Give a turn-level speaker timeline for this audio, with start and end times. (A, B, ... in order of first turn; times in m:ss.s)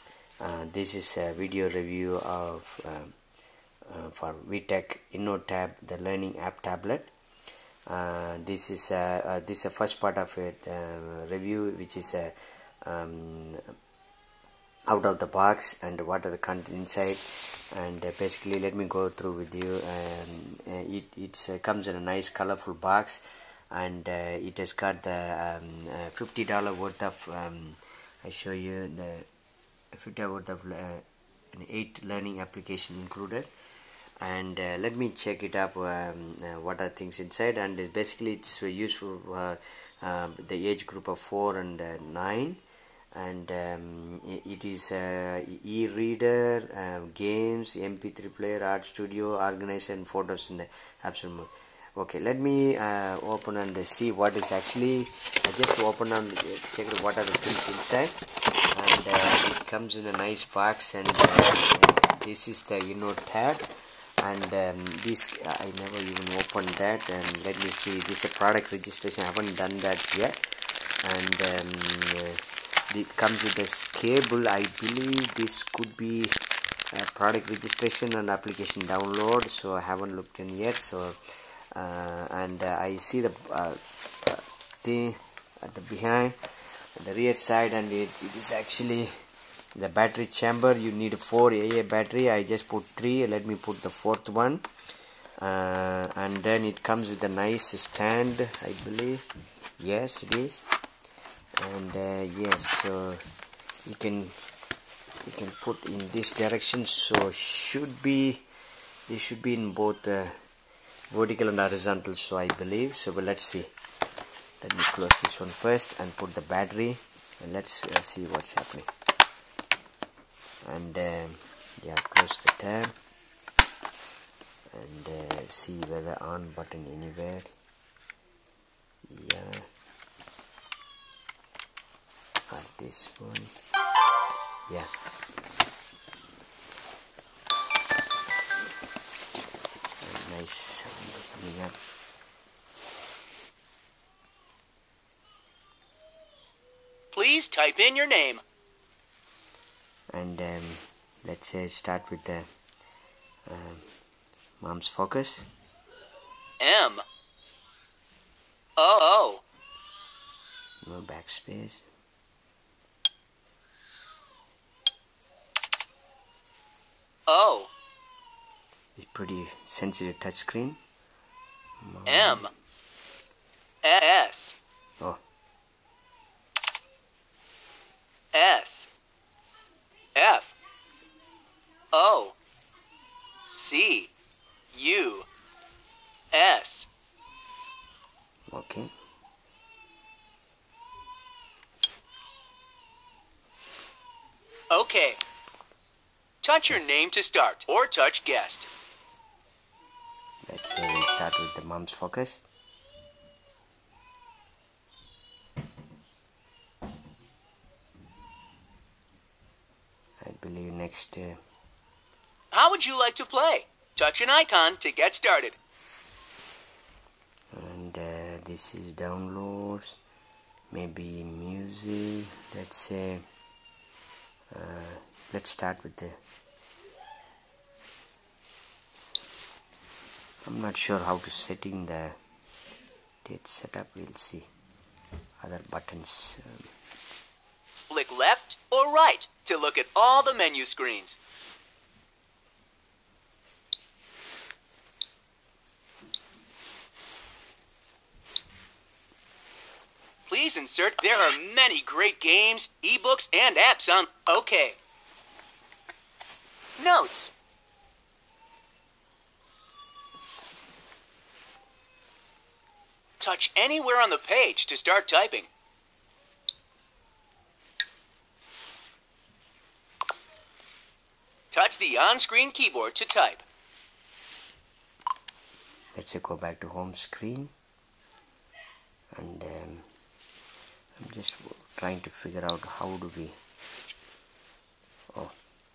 0:00.4-0:03.2 A
0:03.9-0:07.1 A
0:07.9-0:13.6 A
0:14.9-0:29.3 A
0:29.9-0:33.5 A
0:34.2-0:42.6 A
0:43.1-0:58.2 A
0:58.7-1:03.7 A
1:04.2-1:10.4 A
1:11.0-1:16.4 A
1:16.9-1:26.4 A
1:27.0-1:29.1 A
1:29.8-1:34.7 A
1:35.4-1:39.2 A
1:39.8-1:40.6 A
1:41.6-1:43.2 A
1:43.9-1:44.4 A
1:45.2-1:48.5 A
1:49.1-1:50.4 A
1:51.1-1:53.7 A
1:54.6-1:58.9 A
2:00.6-2:02.9 A
2:04.7-2:07.5 A
2:09.1-2:09.7 A
2:12.5-2:13.5 A
2:20.0-2:21.8 A
2:27.1-2:28.4 B
2:30.1-2:32.5 A
2:33.5-2:33.9 A
2:34.6-2:35.5 A
2:36.6-2:37.0 B
2:38.8-2:39.4 B
2:40.8-2:41.9 A
2:47.3-2:47.7 B
2:49.0-2:50.8 A
2:51.8-2:52.5 A
2:52.1-2:52.5 B
2:53.8-2:54.6 B
2:58.3-2:58.9 B
3:00.2-3:00.6 B
3:01.9-3:02.4 B
3:03.5-3:04.1 B
3:04.7-3:05.3 B
3:06.3-3:06.9 B
3:08.5-3:08.9 A
3:14.7-3:15.2 B
3:16.4-3:18.7 B
3:20.5-3:22.4 A
3:30.2-3:31.4 A
3:32.5-3:35.6 B
3:37.5-3:40.0 A
3:40.7-3:43.2 A
3:44.5-3:46.2 A
3:50.4-3:52.2 A
3:53.2-3:54.5 A
3:55.4-3:56.7 A
3:57.9-4:01.2 B
4:10.3-4:14.8 B
4:16.8-4:17.3 B
4:23.2-4:25.5 B
4:31.5-4:33.4 B
4:36.0-4:37.5 A
4:39.1-4:39.9 A
4:41.0-4:43.4 A